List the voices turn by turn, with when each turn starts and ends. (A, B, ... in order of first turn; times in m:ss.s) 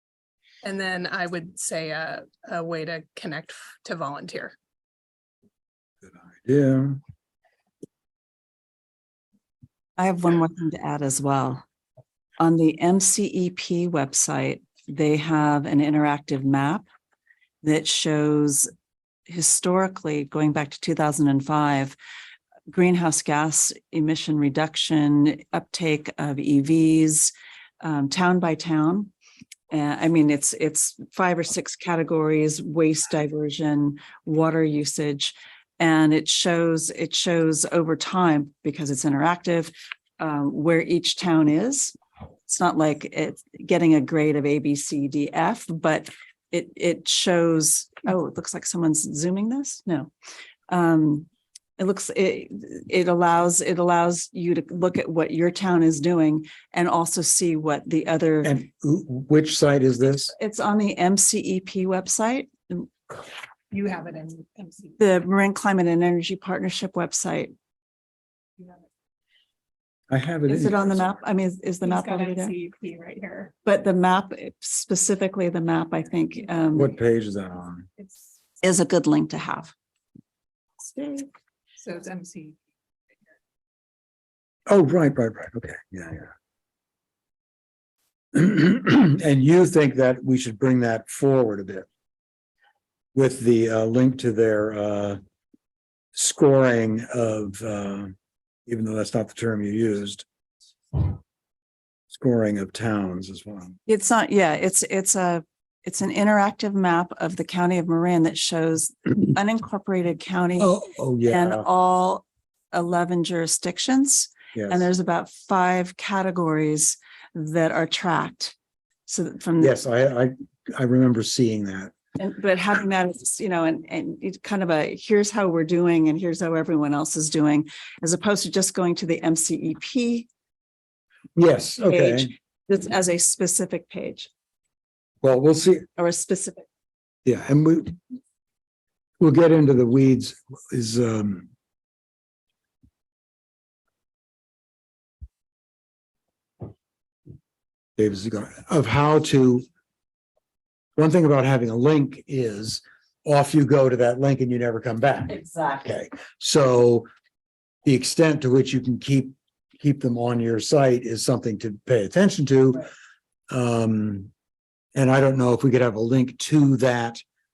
0:00.6-0:04.6 A
0:06.0-0:07.0 B
0:10.0-0:11.6 C
0:12.4-0:16.8 C
0:17.6-0:18.7 C
0:19.3-0:22.0 C
0:22.7-0:29.1 C
0:29.7-0:42.0 C
0:42.5-0:50.1 C
0:50.7-0:58.6 C
0:58.4-1:00.3 B
1:00.3-1:02.9 C
1:03.7-1:05.0 A
1:05.0-1:07.5 C
1:10.1-1:11.1 B
1:10.5-1:12.6 C
1:11.8-1:13.5 A
1:13.6-1:16.9 C
1:16.7-1:17.9 B
1:18.6-1:19.7 C
1:20.8-1:21.3 C
1:21.8-1:22.6 A
1:24.7-1:26.3 B
1:28.3-1:31.9 B
1:33.2-1:35.2 B
1:36.2-1:38.1 B
1:38.7-1:40.2 B
1:42.1-1:43.8 B
1:43.9-1:58.6 C
1:50.6-1:51.7 B
1:54.5-1:54.9 B
1:59.1-1:59.8 C
1:59.6-2:01.9 B
2:02.2-2:10.3 C
2:11.4-2:12.3 B
2:11.9-2:14.3 C
2:15.2-2:15.9 B
2:16.0-2:16.7 C
2:17.2-2:18.0 B
2:19.2-2:21.5 B
2:28.0-2:29.6 B
2:31.0-2:37.1 B
2:35.3-2:35.9 C
2:37.8-2:42.9 B
2:43.5-2:44.3 B
2:45.0-2:47.2 B